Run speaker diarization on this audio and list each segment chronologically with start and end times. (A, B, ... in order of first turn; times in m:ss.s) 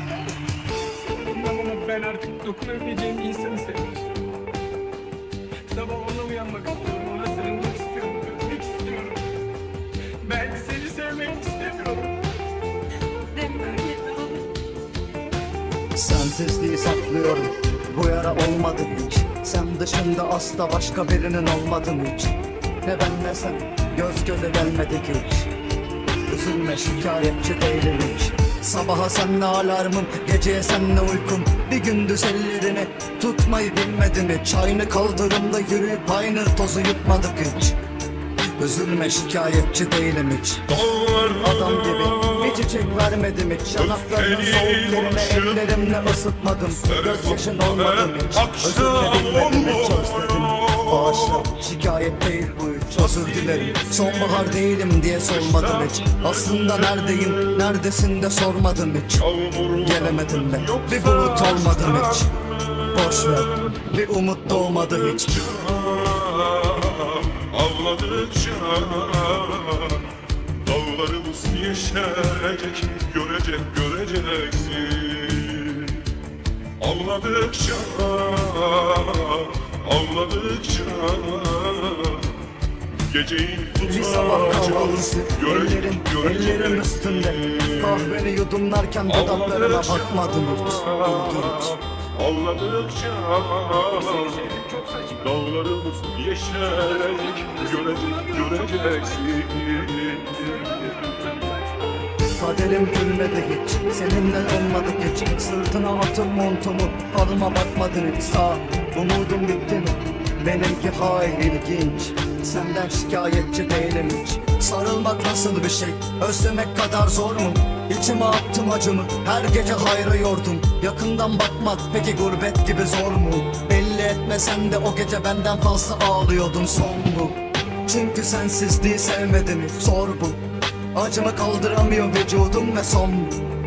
0:00.9-0:04.2 A
0:05.6-0:09.2 A
0:10.2-0:12.2 A
0:13.3-0:14.4 A
0:15.9-0:25.5 B
0:26.3-0:37.8 B
0:38.5-0:40.7 B
0:40.7-0:42.8 C
0:41.3-1:02.3 B
0:43.7-0:46.0 C
0:46.8-0:51.6 C
0:53.0-0:54.7 C
0:55.3-0:57.8 C
0:59.2-1:03.8 C
1:02.9-1:05.5 B
1:04.5-1:16.1 C
1:16.8-1:22.4 C
1:23.0-1:28.2 C
1:23.8-1:31.8 B
1:29.1-1:34.5 C
1:33.9-1:35.3 A
1:35.2-1:40.9 C
1:36.8-1:42.1 A
1:42.3-2:10.4 B
2:10.9-2:13.4 B